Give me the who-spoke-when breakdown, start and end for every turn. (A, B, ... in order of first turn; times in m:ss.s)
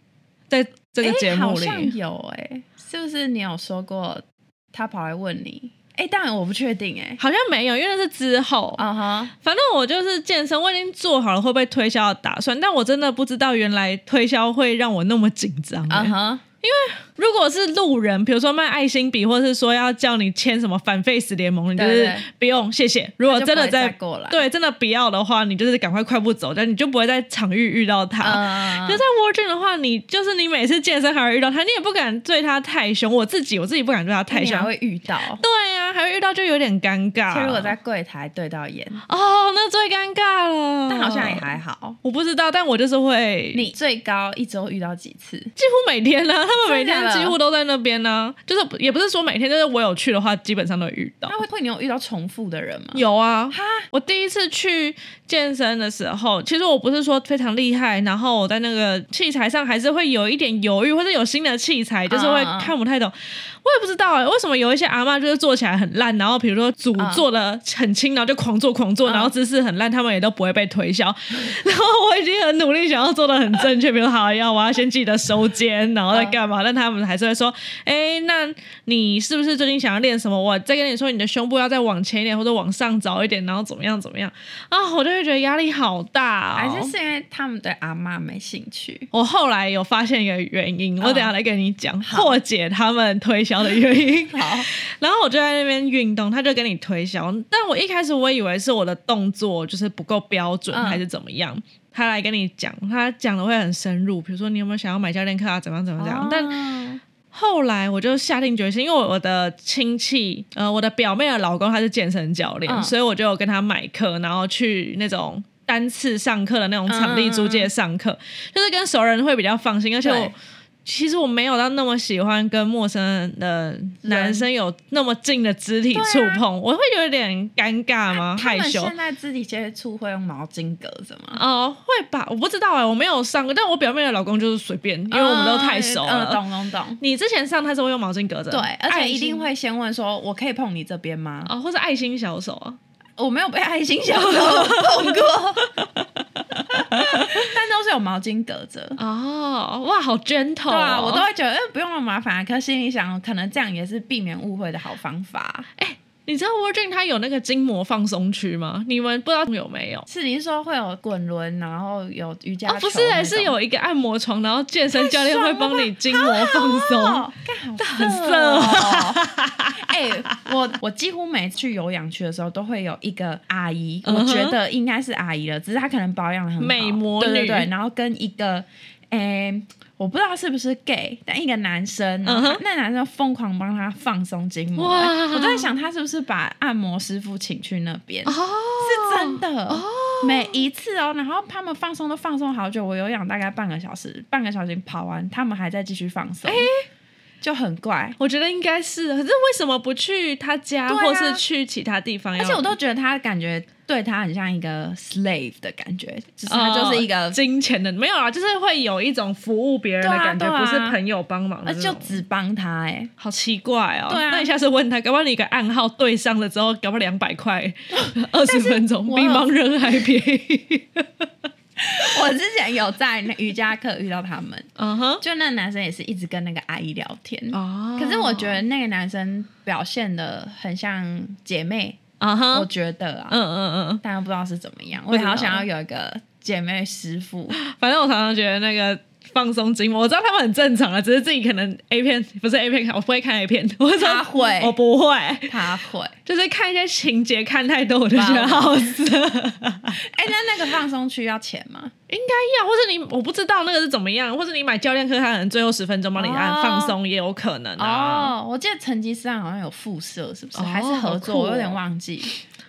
0:00.5-0:01.9 A
0:01.0-0:07.2 B
0:07.2-0:08.8 A
0:08.8-0:09.3 B
0:09.4-0:34.7 A
0:15.9-0:16.4 B
0:21.8-0:22.3 B
0:23.2-0:24.4 B
0:28.2-0:29.0 B
0:34.3-0:35.4 B
0:35.4-0:37.7 A
0:37.3-0:39.0 B
0:39.1-0:43.7 A
0:40.9-0:42.0 B
0:43.5-0:45.5 B
0:45.6-0:51.4 A
0:46.6-0:47.4 B
0:51.3-0:53.9 B
0:53.0-1:26.9 A
1:02.1-1:02.7 B
1:07.0-1:07.2 B
1:09.0-1:09.3 B
1:16.1-1:16.4 B
1:26.6-1:29.1 B
1:29.1-1:46.6 A
1:31.0-1:31.3 B
1:32.0-1:32.4 B
1:34.3-1:34.7 B
1:40.7-1:41.0 B
1:46.0-1:47.0 B
1:47.3-2:08.9 A
1:52.7-1:52.9 B
1:56.9-1:57.7 B
2:00.0-2:00.3 B
2:04.0-2:04.5 B
2:05.9-2:06.4 B
2:08.1-2:11.4 B
2:11.3-2:16.4 A
2:15.1-2:17.0 B
2:17.0-2:19.5 A
2:18.5-2:21.5 B
2:21.5-2:22.8 A
2:23.2-2:25.9 B
2:24.1-2:27.5 A
2:26.7-2:29.0 B
2:29.0-2:31.3 A
2:30.7-2:35.7 B
2:35.8-2:40.1 A
2:40.1-2:43.6 B
2:42.7-2:47.3 A
2:44.9-3:16.7 B
2:47.8-2:50.4 A
2:54.0-2:54.6 A
2:56.6-2:57.7 A
3:02.3-3:02.6 A
3:04.8-3:05.7 A
3:08.3-3:10.6 A
3:16.5-3:16.8 A
3:17.4-3:18.2 B
3:18.2-3:22.8 A
3:20.9-3:21.4 B
3:22.4-3:27.4 B
3:26.5-3:32.2 A
3:30.0-3:31.0 B
3:31.6-3:33.1 B
3:33.2-3:41.3 A
3:34.1-3:34.5 B
3:38.5-3:40.1 B
3:41.8-3:44.7 B
3:44.8-3:45.2 A
3:45.2-3:52.0 B
3:47.5-3:48.6 A
3:52.2-3:52.7 A
3:52.5-3:53.4 B
3:53.3-3:54.0 A
3:54.0-3:57.6 B
3:55.1-3:55.6 A
3:57.5-4:05.7 A
4:04.0-4:04.8 B
4:05.5-4:06.2 B
4:06.3-4:10.0 A
4:08.1-4:09.0 B
4:10.0-4:11.9 B
4:12.1-4:18.3 A
4:16.2-4:17.0 B
4:17.8-4:22.3 B
4:20.6-4:21.8 A